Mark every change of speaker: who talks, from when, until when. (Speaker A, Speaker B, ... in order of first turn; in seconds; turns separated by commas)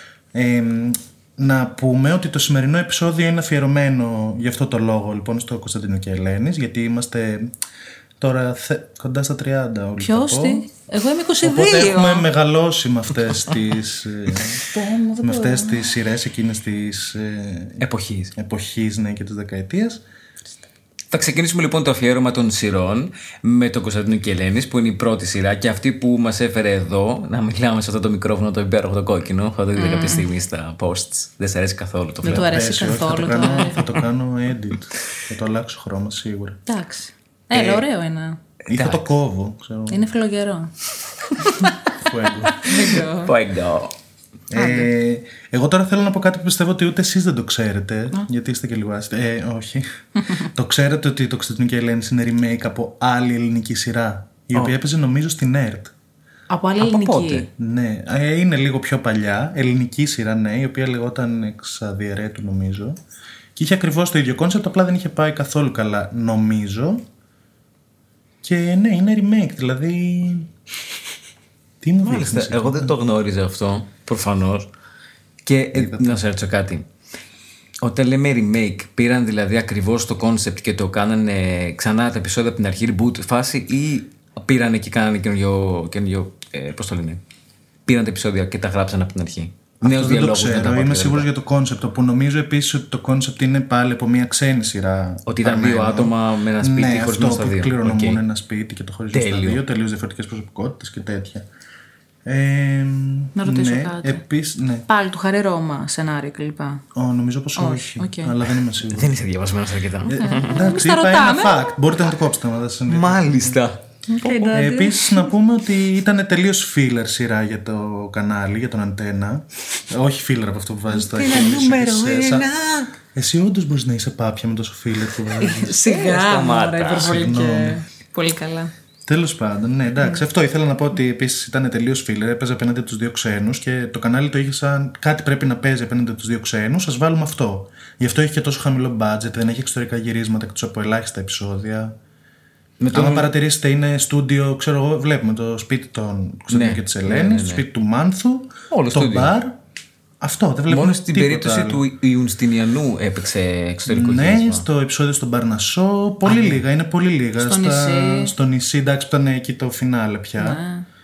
Speaker A: 0.3-7.5, Speaker A: 8.2-10.6, Speaker B: 10.0-12.2, Speaker A: 11.4-14.6, Speaker B: 14.7-15.9, Speaker A: 15.2-17.8, Speaker C: 17.8-18.3, Speaker A: 18.3-20.0, Speaker C: 21.1-32.6, Speaker B: 29.8-30.3, Speaker A: 32.2-36.6, Speaker B: 32.2-33.9, Speaker B: 36.7-38.4, Speaker C: 37.5-37.8, Speaker A: 38.6-40.0, Speaker C: 38.7-39.1, Speaker B: 39.9-40.7, Speaker B: 41.4-41.8, Speaker A: 42.0-42.7, Speaker B: 42.5-43.3, Speaker C: 43.1-43.9, Speaker A: 44.5-55.9, Speaker B: 44.5-44.9, Speaker B: 56.5-57.5, Speaker C: 56.8-57.5, Speaker A: 57.5-63.0, Speaker A: 63.5-67.0, Speaker A: 68.4-70.5, Speaker A: 71.8-72.9, Speaker C: 72.0-74.7, Speaker C: 75.4-76.8, Speaker A: 75.7-76.2, Speaker C: 77.8-87.2, Speaker C: 87.8-91.3, Speaker A: 89.8-101.5, Speaker C: 95.3-98.2, Speaker C: 99.1-99.6, Speaker A: 102.2-104.8, Speaker B: 103.3-104.2, Speaker B: 104.9-106.8, Speaker A: 106.9-109.2, Speaker B: 107.5-108.3, Speaker C: 108.9-110.7, Speaker A: 110.0-113.6, Speaker B: 110.2-111.8, Speaker C: 112.9-114.6, Speaker B: 114.1-115.3, Speaker A: 114.5-122.5, Speaker C: 121.0-122.9, Speaker A: 123.1-125.8, Speaker B: 125.4-128.7, Speaker C: 125.8-127.2, Speaker A: 127.0-127.8, Speaker A: 129.1-141.9, Speaker C: 142.8-143.3, Speaker A: 142.9-149.6, Speaker C: 146.5-147.6, Speaker C: 148.7-149.3, Speaker A: 150.2-151.8, Speaker C: 150.7-154.6, Speaker A: 153.9-160.6, Speaker C: 156.2-156.6, Speaker B: 157.4-158.3, Speaker B: 160.4-160.8